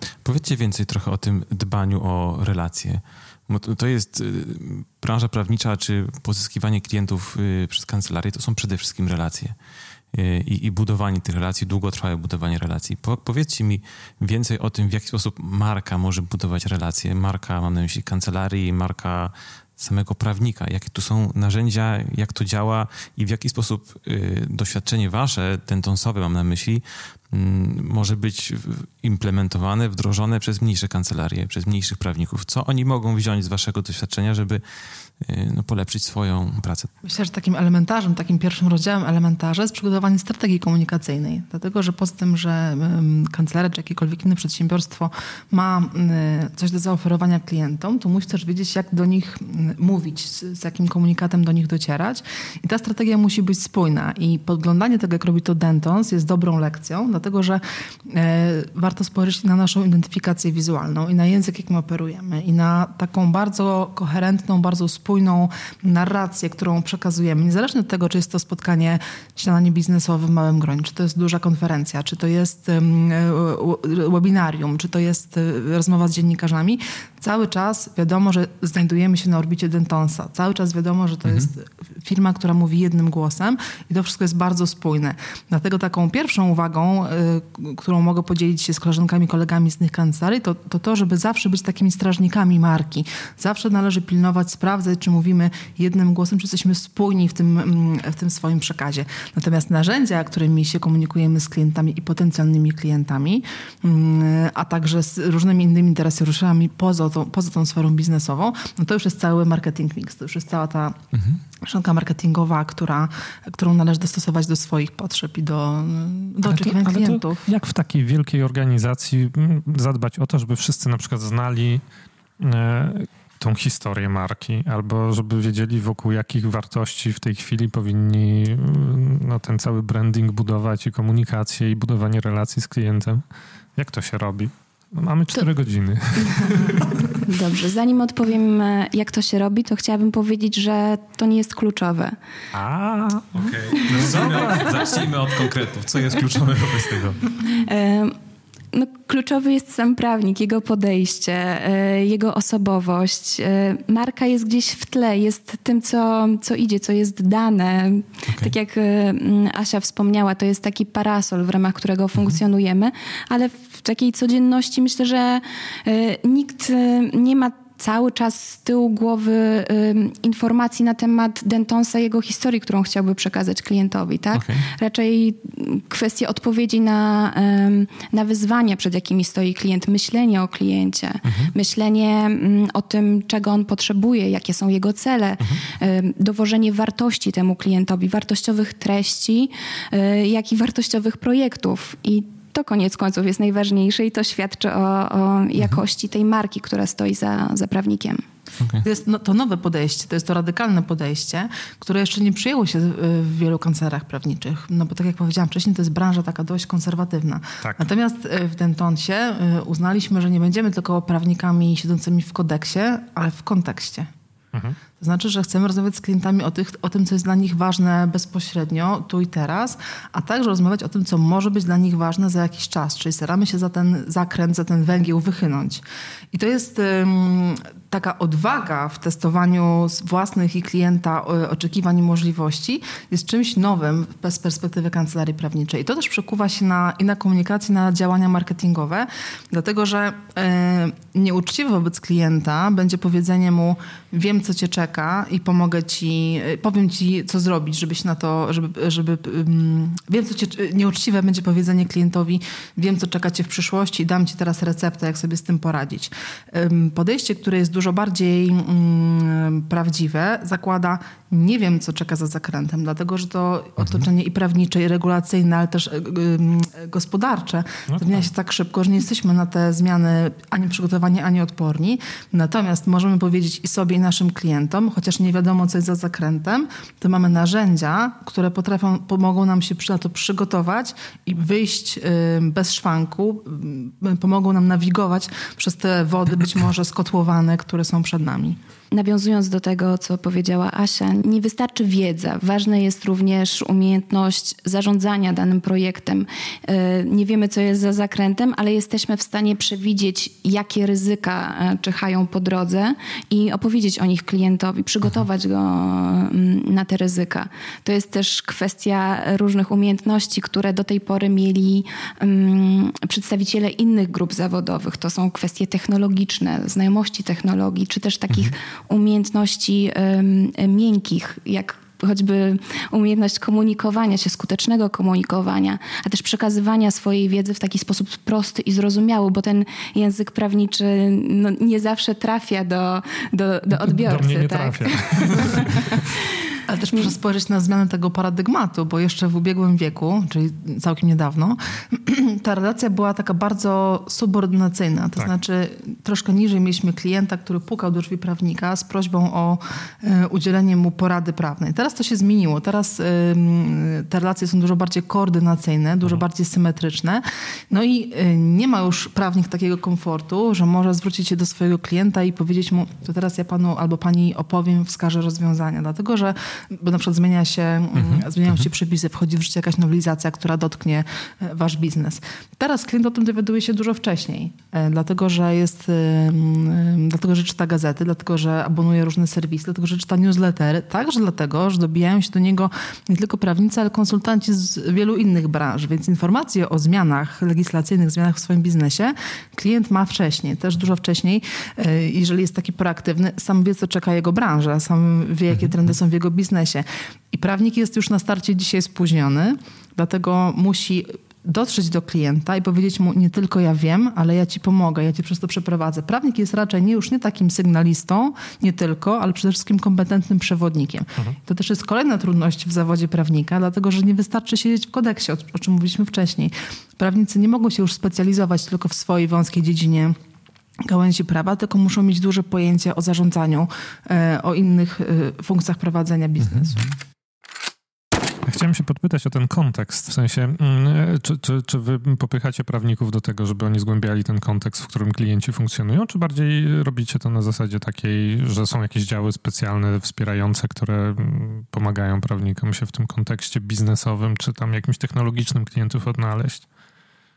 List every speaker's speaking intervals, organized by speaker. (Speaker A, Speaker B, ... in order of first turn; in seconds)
Speaker A: 0.2-9.6, 10.1-34.6, 35.2-36.9, 111.1-111.4, 143.3-147.2, 158.3-158.5, 174.3-174.7, 181.2-181.5, 198.6-198.8, 367.9-368.3, 426.4-426.9
Speaker B: 37.0-111.0, 111.6-117.4, 198.8-214.1, 215.0-288.6, 336.7-420.2, 420.8-426.9
Speaker C: 116.5-121.8, 122.4-133.2, 133.8-137.2, 142.5-144.8, 207.6-207.9, 214.5-214.8, 267.9-268.3, 333.8-336.0, 428.4-446.6
Speaker D: 137.2-142.2, 143.8-144.7, 147.4-148.2, 148.7-198.2, 288.9-336.2